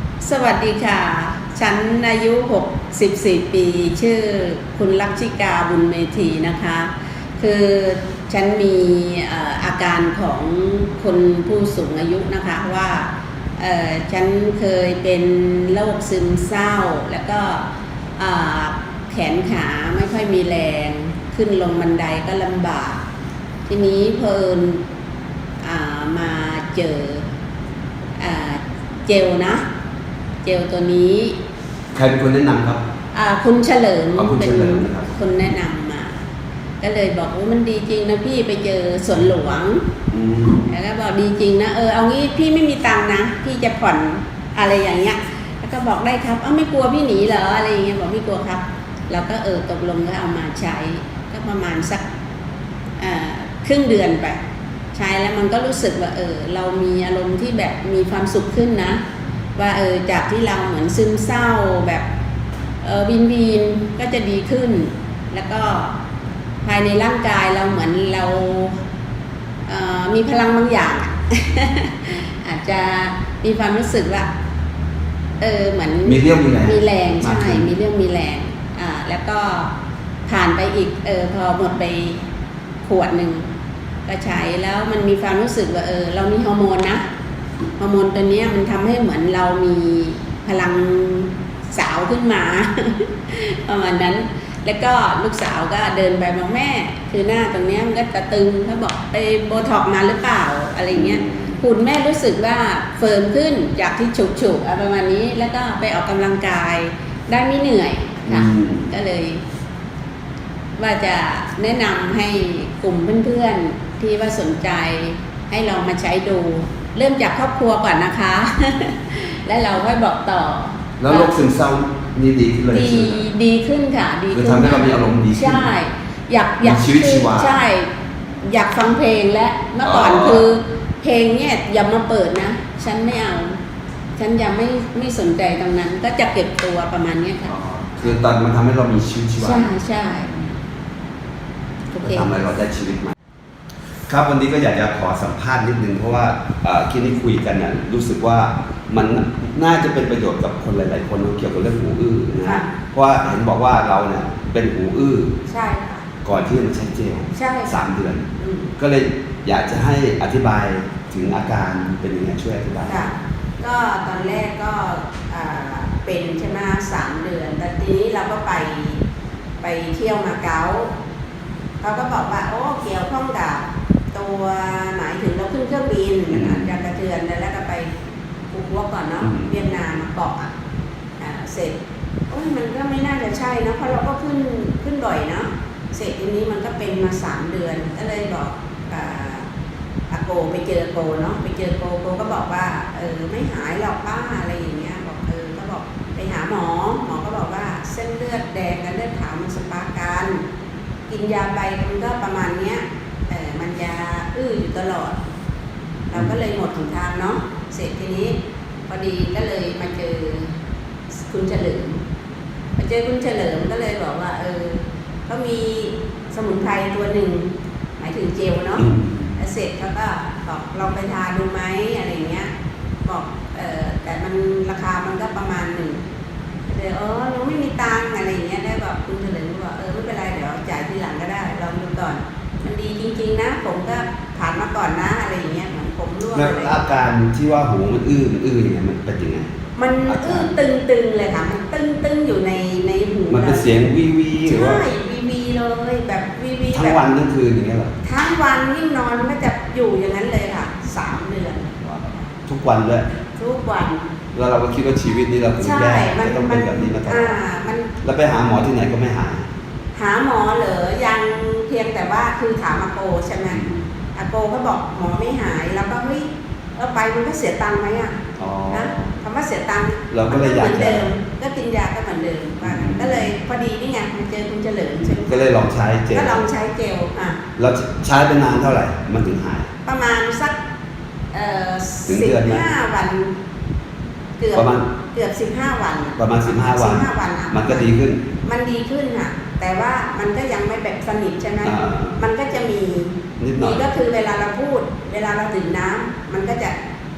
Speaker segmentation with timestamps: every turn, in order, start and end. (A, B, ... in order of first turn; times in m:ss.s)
0:00.2-0:23.0 A
0:23.7-0:24.8 A
0:25.6-0:27.2 A
0:28.2-0:29.6 A
0:30.4-0:31.4 A
0:31.9-0:32.8 B
0:33.1-0:36.1 A
0:34.1-0:35.2 B
0:36.8-0:39.8 A
0:40.1-0:40.6 B
0:40.6-0:52.0 A
0:53.0-0:54.4 A
0:54.9-0:59.0 A
0:59.6-1:02.1 A
1:02.8-1:05.9 A
1:06.6-1:08.8 A
1:09.7-1:14.3 A
1:15.4-1:19.7 A
1:16.0-1:17.7 B
1:20.2-1:22.2 A
1:22.8-1:23.5 A
1:24.0-1:27.0 A
1:27.8-1:49.4 A
1:40.9-1:41.6 B
1:48.3-1:48.9 B
1:50.8-2:01.4 A
2:01.0-2:03.3 B
2:02.7-2:07.9 A
2:04.3-2:05.7 B
2:06.6-2:07.6 B
2:08.4-2:13.6 A
2:09.8-2:10.5 B
2:14.2-2:18.2 A
2:17.5-2:19.7 B
2:19.4-2:20.4 A
2:21.9-2:22.3 A
2:22.0-2:23.1 B
2:24.1-2:35.4 B
2:32.4-2:32.7 A
2:35.5-2:36.0 A
2:36.2-2:43.0 B
2:37.3-2:37.8 A
2:38.4-2:38.7 A
2:42.8-2:49.0 A
2:49.6-2:50.9 A
2:51.8-2:58.0 A
2:56.3-2:56.7 B
2:58.5-3:00.5 A
2:59.2-2:59.5 B
3:01.2-3:01.8 A
3:02.3-3:09.5 A
3:10.1-3:20.4 A
3:21.1-3:25.2 A
3:26.1-3:28.4 A
3:28.9-3:30.5 A
3:31.1-3:32.0 A
3:32.8-3:42.5 A
3:38.8-3:39.3 B
3:43.0-3:46.0 A
3:46.7-3:56.8 A
3:56.3-3:59.5 B
3:59.7-4:03.8 A
4:00.0-4:00.5 B
4:03.3-4:04.8 B
4:04.4-4:07.0 A
4:06.7-4:08.0 B
4:08.0-4:11.8 A
4:11.8-4:13.1 B
4:13.3-4:14.0 A
4:14.3-4:17.4 B
4:15.6-4:17.9 A
4:18.0-4:19.4 B
4:19.9-4:35.6 A
4:23.5-4:23.8 B
4:28.4-4:29.1 B
4:30.1-4:31.0 B
4:32.6-4:33.3 B
4:35.0-4:36.4 B
4:36.1-4:37.4 A
4:37.6-4:39.7 B
4:39.8-4:40.6 A
4:41.3-4:43.3 A
4:42.1-4:42.7 B
4:44.4-4:47.9 A
4:44.5-4:44.9 B
4:46.2-4:48.2 B
4:48.4-4:56.8 A
4:51.6-4:52.2 B
4:53.4-4:53.9 B